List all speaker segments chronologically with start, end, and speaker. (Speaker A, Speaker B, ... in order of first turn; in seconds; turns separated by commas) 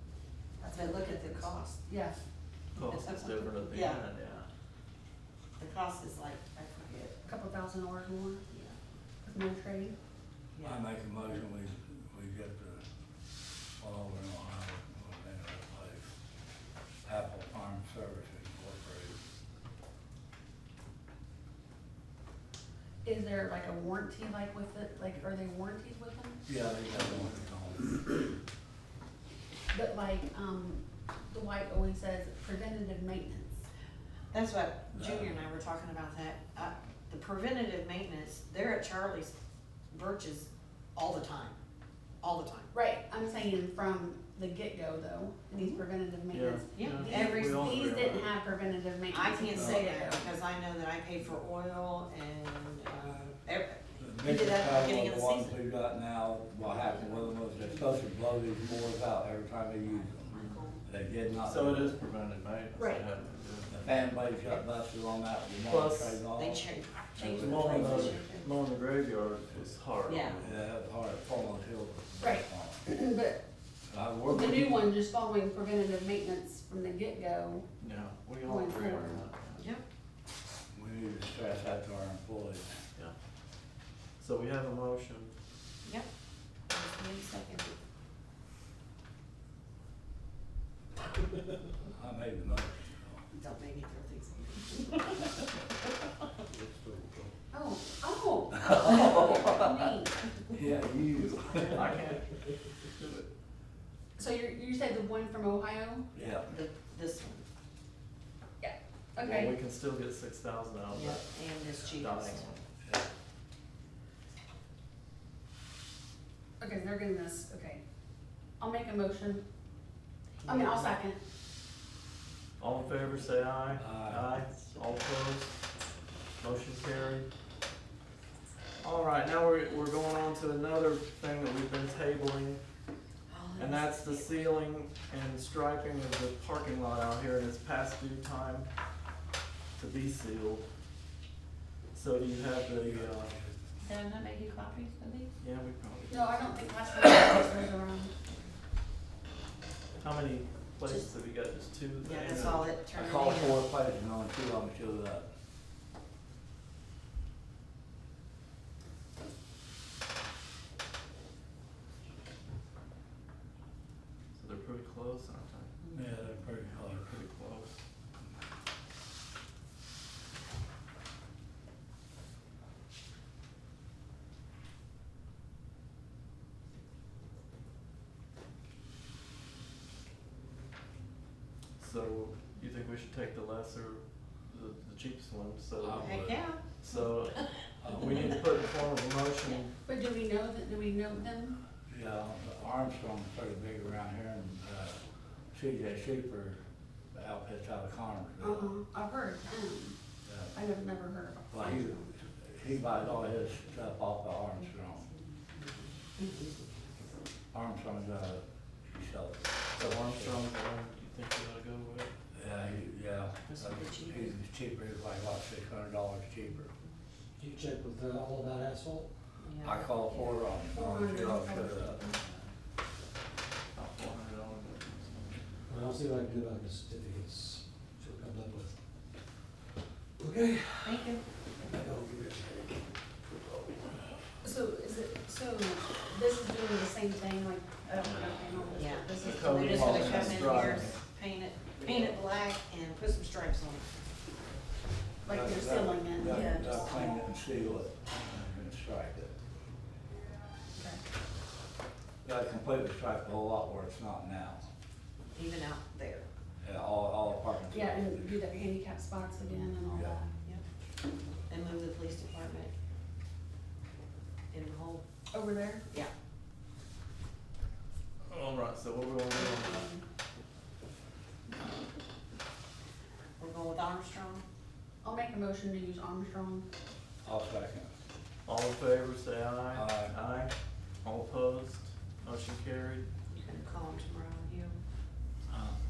Speaker A: 0.6-2.2, Speaker B: 0.7-1.8, Speaker C: 2.7-4.5, Speaker B: 2.8-4.0, Speaker B: 5.6-7.2, Speaker A: 7.2-8.5, Speaker A: 9.2-9.9, Speaker B: 10.5-10.9, Speaker D: 10.6-12.8, Speaker D: 13.8-16.1, Speaker D: 17.0-19.2, Speaker A: 23.0-26.4, Speaker D: 26.5-28.0, Speaker A: 29.7-33.6, Speaker B: 34.3-39.3, Speaker D: 35.0-35.3, Speaker B: 39.9-41.6, Speaker B: 42.2-42.7, Speaker A: 42.7-50.3, Speaker C: 46.3-48.3, Speaker B: 46.7-47.8, Speaker B: 49.1-55.6, Speaker D: 49.5-49.8, Speaker D: 54.0-60.3, Speaker A: 56.7-57.2, Speaker B: 60.2-60.8, Speaker A: 60.3-60.6, Speaker D: 60.8-62.0, Speaker C: 61.4-63.8, Speaker A: 62.7-63.0, Speaker D: 63.7-68.2, Speaker C: 65.6-66.2, Speaker B: 66.3-68.5, Speaker C: 67.2-70.6, Speaker B: 70.0-70.4, Speaker D: 70.3-72.8, Speaker A: 72.2-73.4, Speaker D: 73.9-74.9, Speaker A: 74.2-77.7, Speaker C: 77.8-79.6, Speaker A: 78.4-79.2, Speaker B: 79.5-79.8, Speaker D: 80.7-82.7, Speaker C: 84.2-85.3, Speaker B: 86.7-87.7, Speaker D: 91.9-93.2, Speaker B: 93.3-95.2, Speaker E: 96.5-97.2, Speaker A: 97.5-100.3, Speaker D: 98.7-99.0, Speaker D: 100.5-102.0, Speaker C: 101.6-103.3, Speaker A: 104.2-106.1, Speaker D: 106.1-106.5, Speaker B: 106.5-107.4, Speaker A: 108.6-109.5, Speaker C: 109.2-112.6, Speaker B: 110.9-112.4, Speaker A: 116.6-117.8, Speaker A: 118.6-119.4, Speaker B: 120.4-120.9, Speaker A: 120.4-121.2, Speaker C: 122.6-125.5, Speaker D: 123.7-124.3, Speaker C: 126.4-127.3, Speaker C: 128.8-132.6, Speaker B: 133.3-134.3, Speaker C: 133.6-138.7, Speaker C: 139.8-140.6, Speaker C: 141.9-143.3, Speaker D: 142.8-143.5, Speaker B: 143.8-145.3, Speaker C: 145.4-146.7, Speaker A: 146.1-148.1, Speaker C: 150.0-152.7, Speaker B: 152.0-153.6, Speaker D: 152.3-155.2, Speaker C: 164.3-165.7, Speaker B: 165.8-166.2, Speaker D: 165.9-167.2, Speaker C: 166.9-167.8, Speaker C: 181.8-189.7, Speaker D: 185.8-186.2, Speaker B: 185.8-186.6, Speaker D: 187.8-188.3, Speaker A: 189.8-191.6, Speaker D: 191.9-195.0, Speaker D: 195.5-196.6, Speaker D: 197.1-198.7, Speaker A: 198.4-200.0, Speaker D: 200.2-200.5, Speaker A: 200.5-202.1, Speaker D: 201.5-205.1, Speaker B: 205.5-206.9, Speaker D: 207.5-210.4, Speaker C: 209.7-212.1, Speaker D: 212.3-216.7, Speaker B: 213.5-214.4, Speaker E: 217.4-219.1, Speaker B: 219.4-220.4, Speaker D: 219.6-222.0, Speaker A: 220.7-222.4, Speaker C: 223.7-225.4, Speaker E: 225.7-228.7, Speaker E: 230.2-232.7, Speaker B: 230.8-231.2, Speaker A: 234.4-239.8, Speaker C: 238.0-238.5, Speaker B: 238.7-243.9, Speaker C: 239.2-241.0, Speaker D: 239.4-240.9, Speaker A: 245.2-247.3, Speaker D: 245.3-249.3, Speaker B: 246.2-247.1, Speaker A: 250.8-251.0, Speaker D: 252.2-254.6, Speaker B: 255.3-256.2, Speaker D: 256.6-258.4, Speaker A: 257.7-260.3, Speaker D: 259.9-260.2, Speaker B: 261.5-262.7, Speaker B: 264.5-265.0, Speaker A: 265.3-265.8, Speaker C: 268.3-269.9, Speaker A: 269.3-270.0, Speaker B: 273.4-274.4, Speaker A: 275.0-276.7, Speaker D: 277.2-277.9, Speaker C: 278.4-280.5, Speaker D: 279.7-280.1, Speaker C: 281.0-283.1, Speaker B: 283.3-284.8, Speaker D: 285.5-285.8